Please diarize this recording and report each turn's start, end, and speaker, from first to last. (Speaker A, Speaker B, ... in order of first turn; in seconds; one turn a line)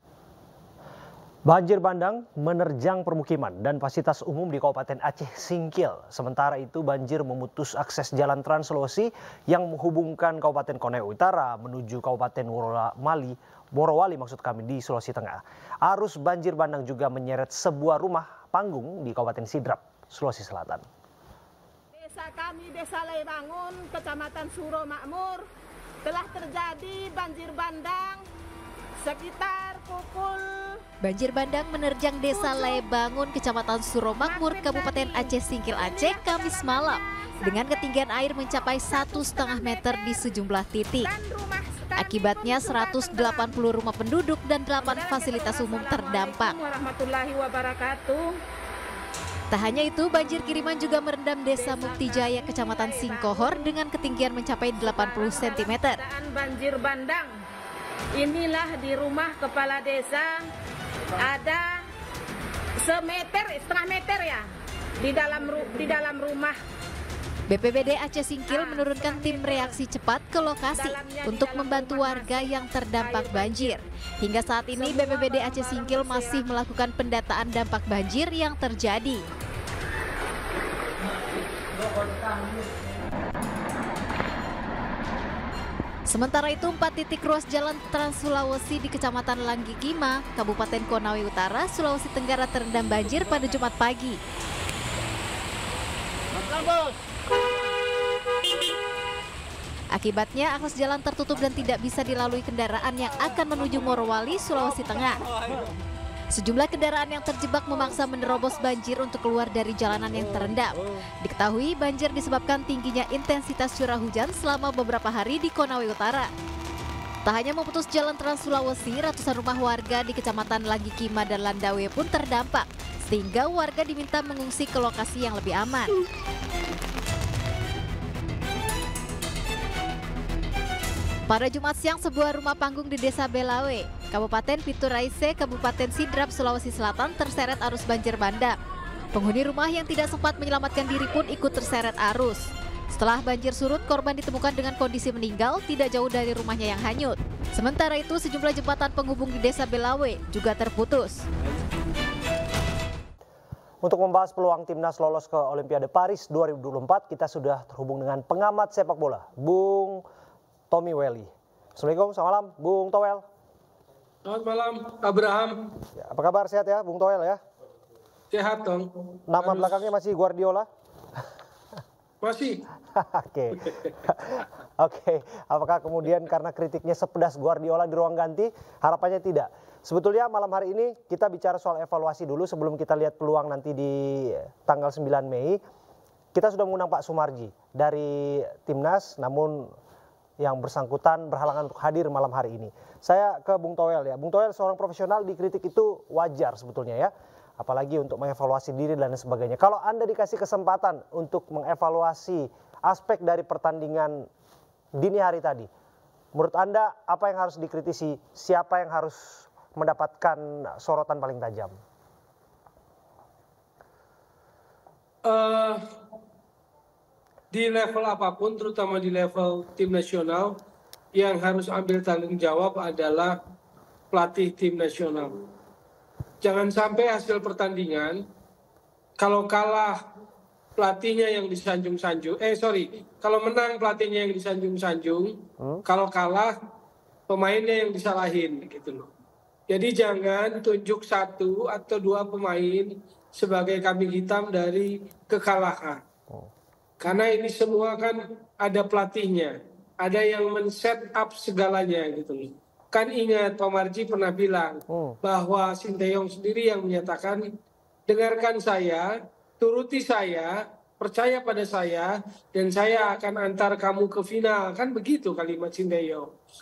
Speaker A: 1.5-20.8
Speaker B: 21.9-25.4
Speaker B: 26.0-28.2
Speaker B: 29.0-30.8
Speaker C: 31.0-41.1
Speaker B: 32.3-32.8
Speaker B: 34.2-37.7
Speaker B: 38.9-40.3
Speaker B: 41.0-43.5
Speaker C: 42.0-46.5
Speaker B: 44.8-48.3
Speaker C: 49.5-56.0
Speaker B: 51.5-53.8
Speaker B: 54.8-57.4
Speaker B: 58.2-60.5
Speaker B: 61.2-61.8
Speaker B: 62.8-64.5
Speaker B: 65.0-66.6
Speaker C: 67.5-79.2
Speaker B: 68.5-69.8
Speaker B: 70.7-73.8
Speaker B: 74.7-76.5
Speaker C: 86.1-94.2
Speaker C: 99.9-105.2
Speaker C: 106.3-116.3
Speaker C: 117.2-125.9
Speaker C: 131.3-138.6
Speaker C: 139.1-151.2
Speaker A: 153.8-160.0
Speaker A: 160.7-163.2
Speaker D: 164.2-165.7
Speaker A: 166.0-167.4
Speaker D: 168.3-169.8
Speaker A: 169.3-170.7
Speaker D: 172.2-172.6
Speaker A: 172.9-185.6
Speaker A: 186.3-189.7
Speaker A: 190.4-204.3
Speaker A: 205.0-205.7
Speaker A: 206.3-211.8
Speaker D: 215.2-215.8
Speaker D: 217.5-220.5
Speaker D: 221.1-223.3
Speaker D: 224.1-225.3
Speaker D: 226.4-228.2
Speaker D: 229.2-229.9
Speaker D: 230.8-236.5
Speaker D: 237.3-239.1
Speaker D: 239.7-246.0
Speaker D: 247.0-257.4
Speaker A: 254.9-255.2
Speaker D: 258.1-259.1
Speaker D: 259.6-266.3